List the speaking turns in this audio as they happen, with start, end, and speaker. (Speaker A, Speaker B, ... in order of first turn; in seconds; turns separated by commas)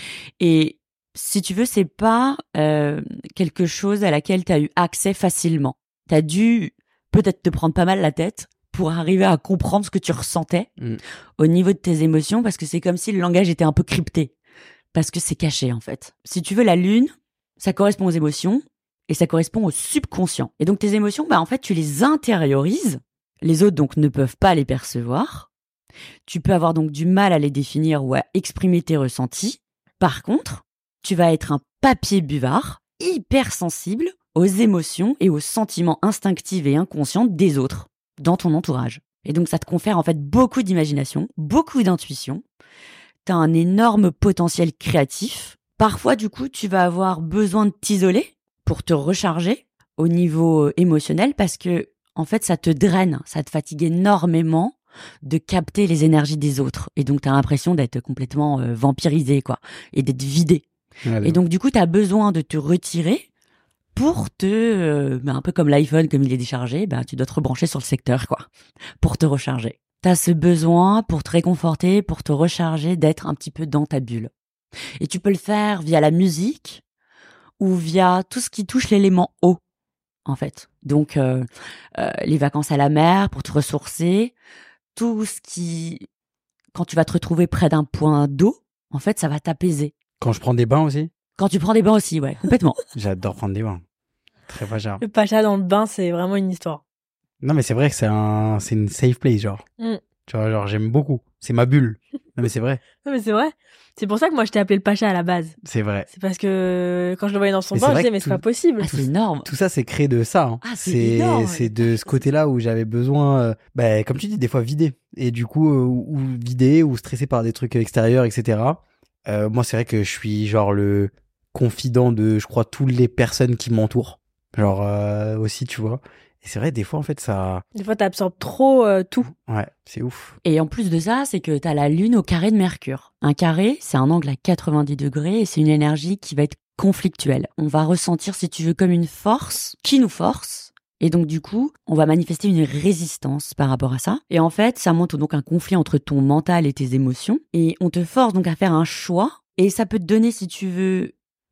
Speaker A: 0.4-10.7, Speaker A: 11.4-14.3, Speaker A: 14.9-25.5, Speaker A: 26.3-42.4, Speaker A: 43.2-60.6, Speaker B: 61.1-61.4, Speaker A: 61.2-63.3, Speaker A: 64.0-68.5, Speaker A: 69.0-74.3, Speaker A: 75.0-76.8, Speaker A: 77.6-79.6, Speaker A: 80.3-84.3, Speaker A: 85.0-86.1, Speaker A: 86.7-89.9, Speaker B: 90.2-91.1, Speaker A: 91.4-92.8, Speaker B: 93.0-93.8, Speaker B: 94.5-95.0, Speaker C: 95.0-96.8, Speaker B: 97.4-99.6, Speaker B: 100.3-102.8, Speaker C: 103.0-105.6, Speaker B: 105.6-106.1, Speaker C: 106.1-108.9, Speaker B: 107.7-127.6, Speaker A: 108.8-109.5, Speaker A: 110.6-111.8, Speaker C: 127.8-129.3, Speaker B: 129.3-130.4, Speaker A: 130.4-151.1